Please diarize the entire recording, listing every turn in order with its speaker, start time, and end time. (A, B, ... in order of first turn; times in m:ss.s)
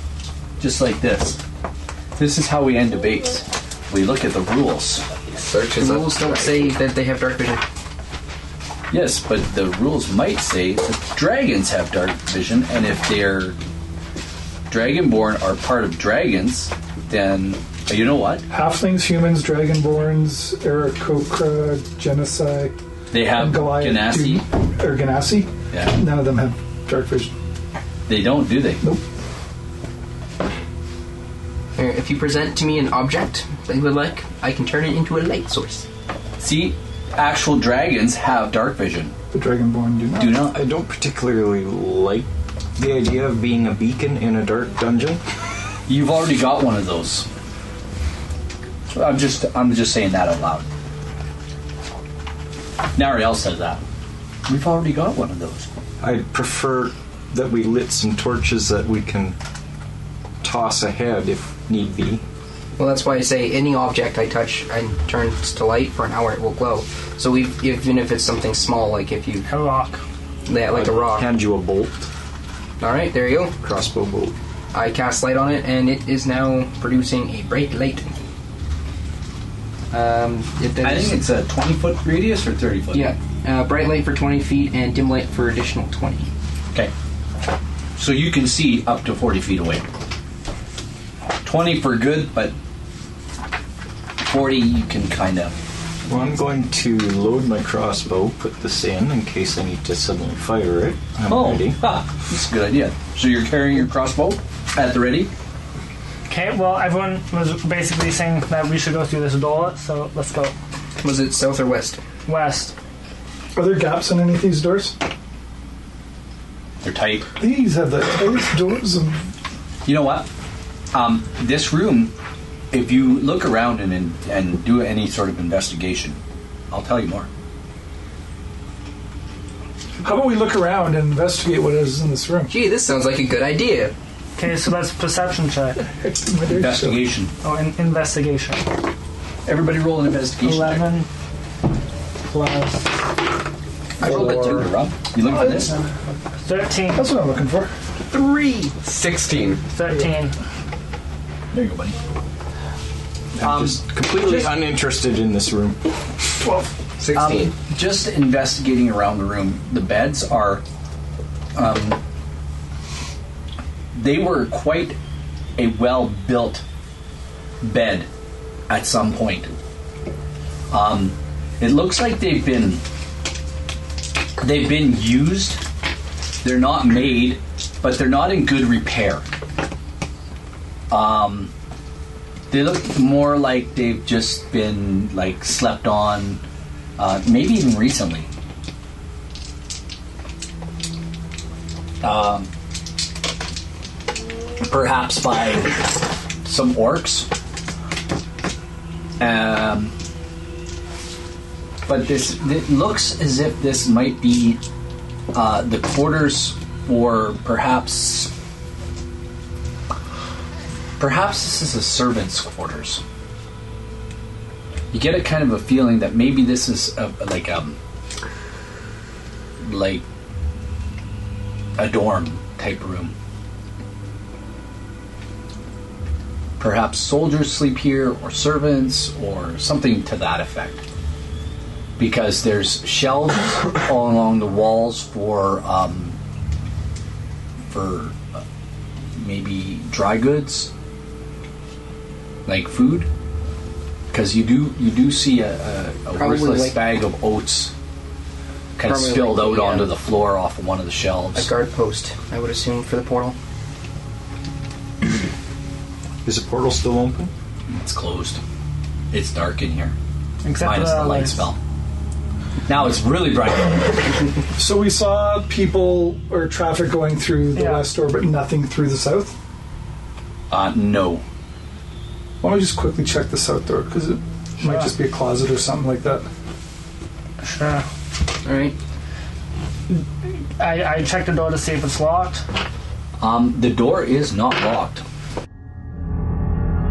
0:00.6-0:01.4 A
0:02.2-0:05.0 A
0:05.3-0:06.7 B
0:05.7-0:07.6 C
0:08.9-0:13.6 A
0:14.7-0:18.4 A
0:18.5-0:27.3 D
0:23.1-0:24.4 A
0:25.7-0:26.0 A
0:28.1-0:28.8 A
0:31.8-0:35.9 C
0:36.4-0:39.1 A
0:39.3-0:40.5 D
0:40.2-0:40.6 A
0:40.4-0:45.2 E
0:45.9-0:47.3 A
0:48.9-0:50.6 A
0:53.0-0:53.8 A
0:54.5-0:55.7 A
0:56.0-0:59.4 E
1:00.4-1:02.2 E
1:02.8-1:09.4 C
1:09.4-1:10.0 F
1:10.5-1:11.3 C
1:10.7-1:12.1 E
1:12.8-1:13.6 C
1:13.6-1:14.4 E
1:14.7-1:18.2 C
1:19.9-1:21.2 C
1:20.8-1:23.1 A
1:22.9-1:26.3 C
1:28.0-1:29.8 A
1:31.4-1:32.6 A
1:34.2-1:35.5 A
1:36.1-1:41.8 E
1:41.3-1:45.3 A
1:46.3-1:50.5 F
1:51.0-1:52.0 C
1:52.2-1:52.7 F
1:53.6-1:55.0 D
1:56.8-1:57.3 A
1:57.4-1:59.3 D
1:59.8-2:00.3 A
2:00.9-2:02.1 A
2:02.7-2:06.2 A
2:06.7-2:07.3 A
2:10.0-2:12.6 D
2:12.5-2:13.9 C
2:14.4-2:15.8 F
2:15.8-2:17.0 D
2:16.5-2:17.3 A
2:17.4-2:18.7 F
2:19.4-2:20.9 A
2:20.4-2:21.1 F
2:22.3-2:22.9 F
2:24.0-2:25.8 A
2:24.0-2:24.7 D
2:25.2-2:25.8 D
2:26.4-2:27.1 F
2:26.9-2:27.7 D
2:28.1-2:29.7 B
2:29.7-2:30.3 F
2:31.5-2:32.0 A
2:33.4-2:35.9 E
2:33.4-2:34.6 A
2:37.0-2:37.5 B
2:37.1-2:40.6 A
2:41.6-2:42.0 A
2:43.9-2:45.0 A
2:45.6-2:46.6 A
2:47.6-2:48.1 A
2:48.7-2:49.5 A
2:50.7-2:52.8 A
2:54.4-2:55.6 A
2:56.4-2:59.3 A
3:00.9-3:01.5 A
3:02.5-3:06.4 A
3:07.0-3:08.3 A
3:12.0-3:12.5 A
3:14.6-3:17.3 A
3:19.2-3:19.9 A
3:21.8-3:24.6 A
3:25.3-3:28.3 A
3:31.0-3:33.0 A
3:34.9-3:37.8 A
3:39.6-3:40.0 A
3:41.8-3:43.1 A
3:46.6-3:50.8 A
3:52.0-3:56.2 A
3:57.7-3:58.4 A
3:59.2-4:00.7 A
4:02.4-4:03.1 A
4:04.1-4:07.7 A
4:06.1-4:06.8 C
4:08.8-4:11.5 A
4:08.8-4:09.9 C
4:11.3-4:13.4 C
4:16.2-4:17.3 E
4:17.7-4:18.4 A
4:19.1-4:19.9 A
4:20.4-4:21.4 F
4:20.6-4:21.6 A
4:22.7-4:24.3 A
4:24.5-4:29.4 D
4:27.5-4:27.9 F
4:30.5-4:31.2 A
4:32.4-4:36.3 D
4:34.6-4:34.9 F
4:37.4-4:37.8 F
4:38.4-4:38.8 C
4:39.9-4:42.4 F
4:43.2-4:45.0 A